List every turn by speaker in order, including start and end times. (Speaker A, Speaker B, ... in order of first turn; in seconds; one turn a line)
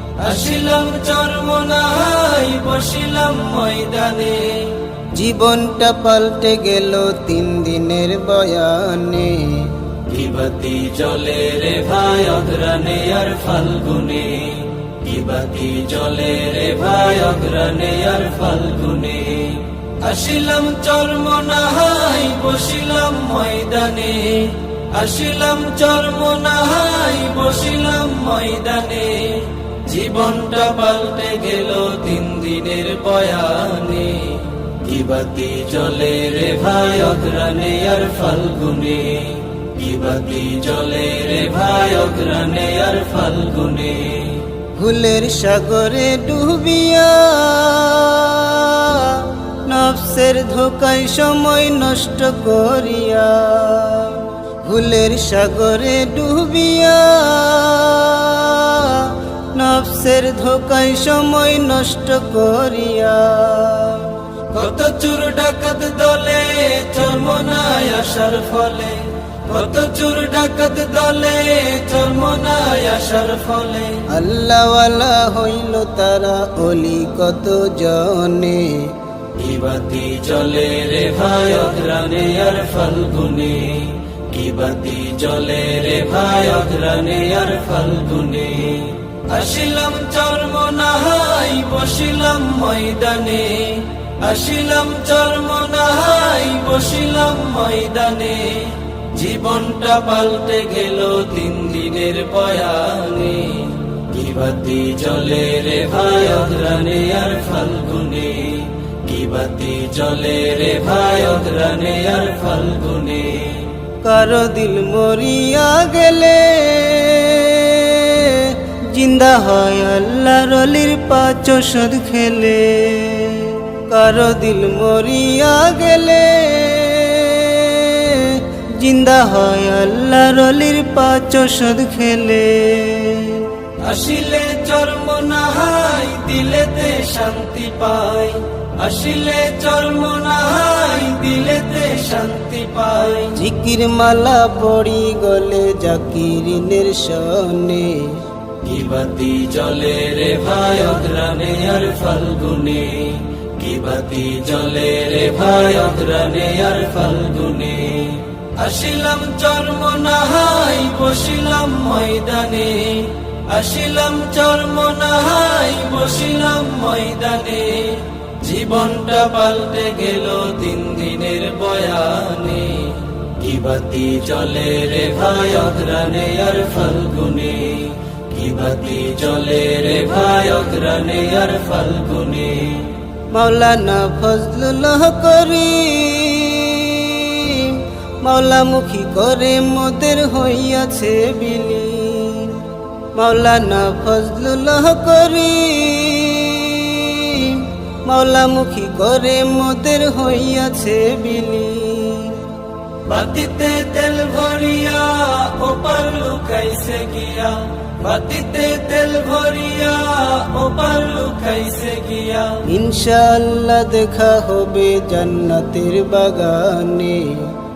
Speaker A: 0.2-4.8
Speaker B: 5.1-9.7
Speaker A: 10.1-44.5
Speaker B: 44.8-64.2
Speaker A: 64.5-74.0
Speaker B: 74.1-78.9
Speaker A: 79.3-113.7
Speaker B: 114.0-133.5
Speaker A: 133.8-143.3
Speaker B: 143.3-148.2
Speaker A: 148.6-182.9
Speaker B: 183.3-192.6
Speaker B: 193.2-202.4
Speaker A: 203.1-212.6
Speaker B: 212.7-217.5